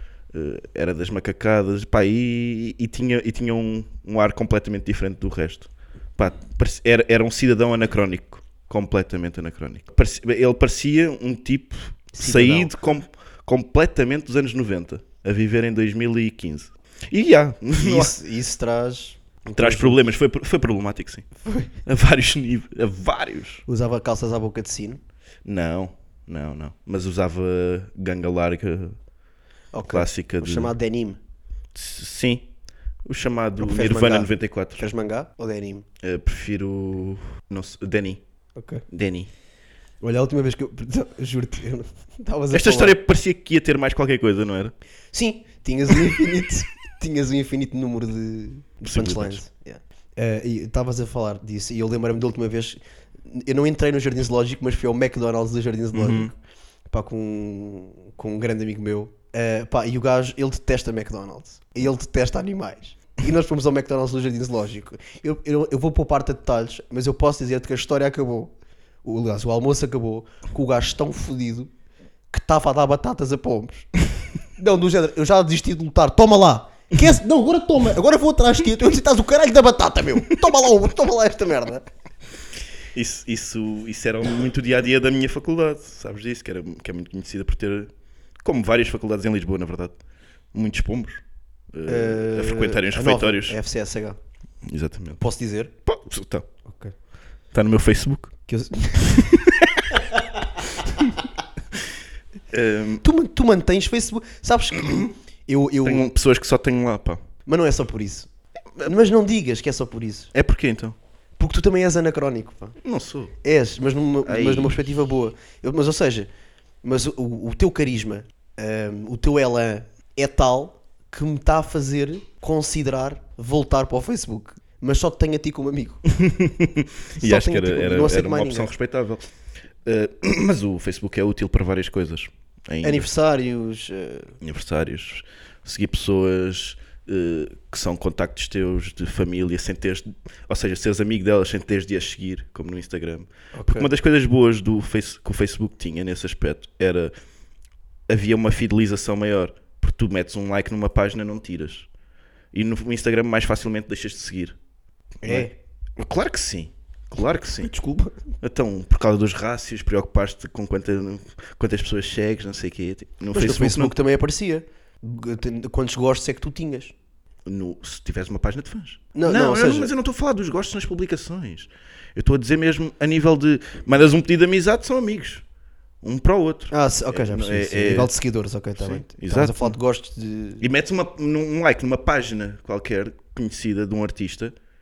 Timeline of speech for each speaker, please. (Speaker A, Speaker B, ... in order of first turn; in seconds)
Speaker A: 0.3-18.1, 19.6-21.3, 21.8-23.6, 25.4-29.0, 29.9-30.7, 31.7-32.5, 33.0-34.8, 36.0-38.2, 38.9-39.3, 42.5-44.7, 48.8-49.4, 55.9-56.3, 82.9-90.0, 90.5-91.2, 91.7-93.6, 94.6-95.2, 95.9-96.5, 97.5-98.3, 99.0-100.0, 102.5-103.0, 105.8-107.2, 110.3-111.0, 112.8-113.3, 114.2-114.8, 126.1-129.3, 129.8-133.1, 134.4-147.1, 148.1-151.9, 152.5-154.6, 155.2-157.7, 158.4-163.9, 167.4-175.4, 176.0-178.1, 178.8-179.8, 180.6-184.5
Speaker B: 12.1-12.7, 17.7-20.0, 21.4-21.7, 23.7-25.0, 29.7-31.2, 33.6-35.9, 38.5-38.9, 40.0-43.0, 45.1-56.3, 56.9-68.5, 69.0-71.7, 72.3-73.9, 74.6-81.8, 91.9-94.2, 95.2-95.7, 96.6-96.9, 98.5-99.2, 103.0-106.1, 107.5-110.3, 111.4-112.8, 113.4-116.3, 116.8-126.0, 127.2-128.7, 132.8-134.3, 143.5-143.9, 155.2-155.5, 157.6-158.2, 163.3-166.9, 169.1-169.9, 176.7-180.6